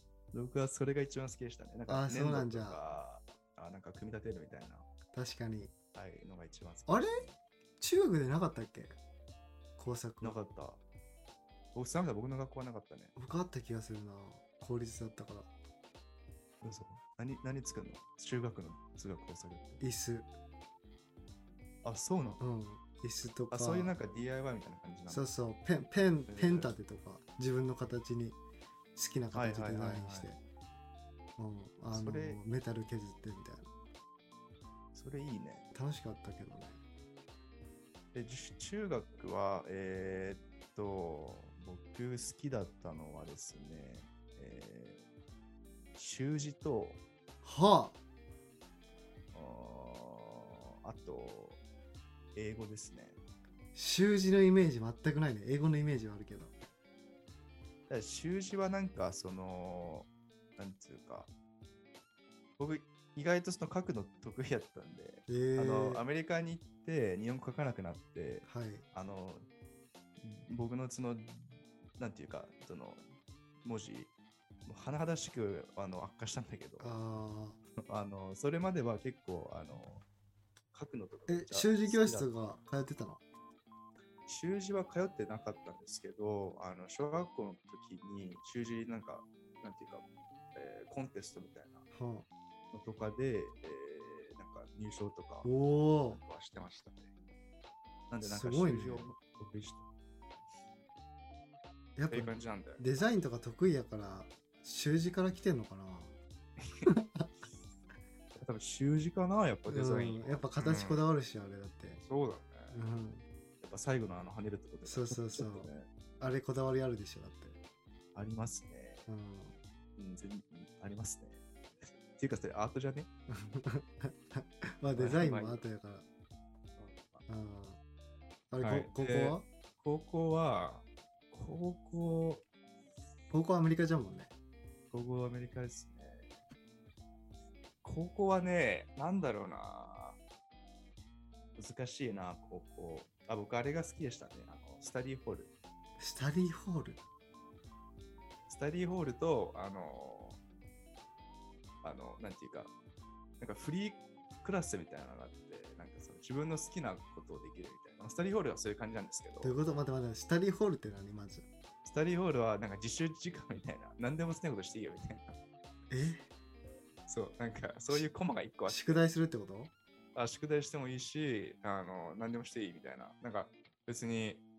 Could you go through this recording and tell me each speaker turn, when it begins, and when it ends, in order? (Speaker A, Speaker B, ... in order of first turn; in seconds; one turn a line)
Speaker A: 0.3-4.8
Speaker B: 1.9-2.8
Speaker B: 5.1-5.7
Speaker A: 5.9-7.3
Speaker B: 6.9-7.2
Speaker B: 7.8-8.9
Speaker B: 9.8-10.4
Speaker A: 10.2-10.8
Speaker A: 11.7-13.1
Speaker B: 13.2-15.5
Speaker A: 16.6-19.8
Speaker B: 19.8-20.3
Speaker A: 21.8-22.4
Speaker B: 22.4-23.9
Speaker A: 23.5-25.2
Speaker B: 25.1-28.4
Speaker A: 26.3-26.7
Speaker B: 28.9-30.4
Speaker A: 29.3-30.3
Speaker B: 31.4-33.6
Speaker A: 31.9-32.4
Speaker A: 34.9-35.6
Speaker B: 35.7-36.8
Speaker A: 38.1-45.0
Speaker A: 45.9-47.0
Speaker B: 47.4-48.0
Speaker A: 49.3-51.6
Speaker A: 52.3-53.2
Speaker B: 53.7-56.5
Speaker A: 57.9-61.3
Speaker A: 62.6-69.5
Speaker B: 65.3-66.0
Speaker B: 68.5-68.8
Speaker A: 70.2-73.0
Speaker A: 73.6-74.1
Speaker A: 74.7-76.9
Speaker B: 76.8-77.6
Speaker A: 77.9-80.0
Speaker A: 80.7-82.3
Speaker B: 81.3-83.2
Speaker A: 84.3-91.8
Speaker B: 91.9-92.3
Speaker A: 92.7-95.5
Speaker B: 95.4-96.2
Speaker A: 96.1-97.1
Speaker A: 98.1-99.9
Speaker B: 98.2-99.1
Speaker B: 102.0-106.1
Speaker A: 102.1-102.8
Speaker B: 106.8-107.3
Speaker A: 108.3-111.0
Speaker B: 109.7-112.0
Speaker A: 112.0-112.7
Speaker B: 112.7-113.2
Speaker A: 113.6-115.9
Speaker B: 114.8-115.7
Speaker B: 116.2-117.6
Speaker A: 118.1-119.1
Speaker B: 119.1-119.5
Speaker A: 120.0-121.4
Speaker A: 122.1-123.1
Speaker B: 123.3-126.0
Speaker A: 124.9-125.6
Speaker A: 126.8-127.2
Speaker B: 127.3-127.8
Speaker B: 128.5-129.4
Speaker A: 128.6-132.4
Speaker B: 133.3-134.3
Speaker A: 134.9-136.3
Speaker A: 137.8-140.2
Speaker A: 141.6-145.5
Speaker B: 146.0-147.0
Speaker A: 148.5-150.4
Speaker A: 151.8-152.7
Speaker A: 153.4-159.6
Speaker B: 159.4-161.4
Speaker A: 161.8-165.4
Speaker B: 165.9-166.2
Speaker A: 167.1-169.1
Speaker B: 168.7-169.7
Speaker A: 170.1-174.4